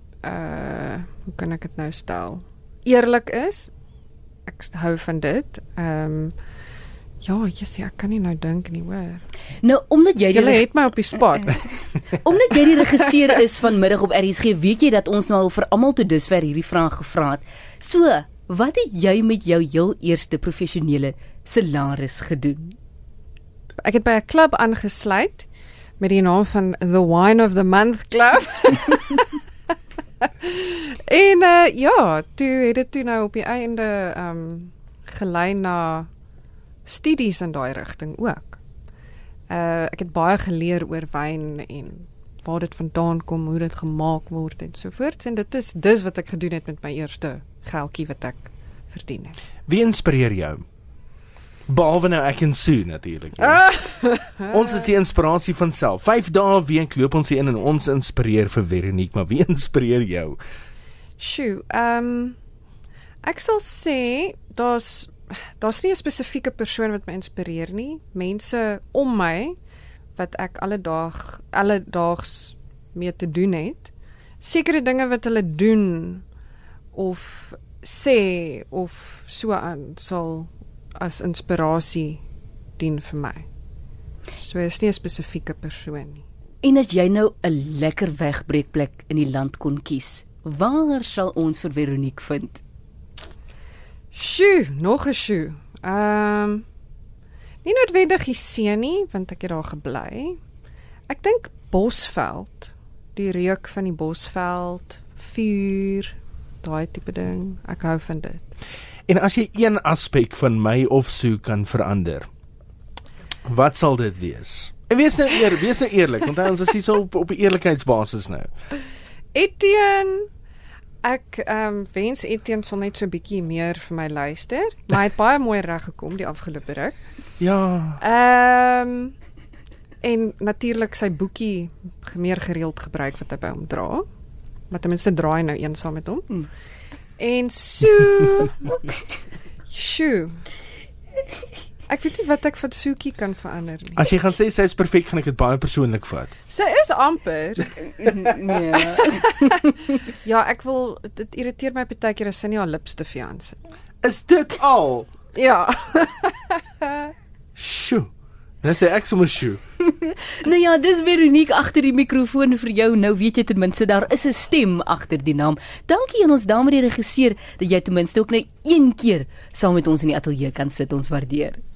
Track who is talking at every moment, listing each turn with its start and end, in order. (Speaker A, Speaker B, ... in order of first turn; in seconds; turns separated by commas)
Speaker A: 0.2-3.7, Speaker A: 4.5-6.3, Speaker A: 7.2-9.2, Speaker B: 9.6-10.7, Speaker A: 10.2-11.7, Speaker B: 12.1-22.8, Speaker A: 23.8-25.5, Speaker A: 26.0-29.4, Speaker A: 30.2-36.1, Speaker A: 36.8-38.6, Speaker A: 39.5-49.4, Speaker C: 49.7-50.6, Speaker C: 51.7-53.7, Speaker A: 53.4-54.5, Speaker C: 54.5-60.4, Speaker A: 61.2-62.4, Speaker A: 63.2-69.5, Speaker A: 70.2-76.2, Speaker A: 76.9-82.2, Speaker A: 82.8-83.5, Speaker A: 84.3-86.2, Speaker B: 86.6-92.6, Speaker A: 94.1-96.6, Speaker A: 97.6-100.4, Speaker A: 101.1-108.5, Speaker C: 109.1-112.3, Speaker C: 113.5-118.5, Speaker A: 119.3-120.3, Speaker A: 121.0-127.0, Speaker C: 127.4-128.0, Speaker A: 128.0-129.1, Speaker A: 130.0-134.0, Speaker A: 134.7-136.4, Speaker A: 137.2-138.6, Speaker A: 139.7-140.4, Speaker A: 141.9-144.0, Speaker C: 143.9-146.3, Speaker A: 146.5-148.1, Speaker B: 147.8-149.7, Speaker A: 148.9-153.6, Speaker C: 154.0-155.1, Speaker A: 155.3-156.5, Speaker C: 157.6-158.1, Speaker C: 158.6-159.6, Speaker B: 159.9-171.6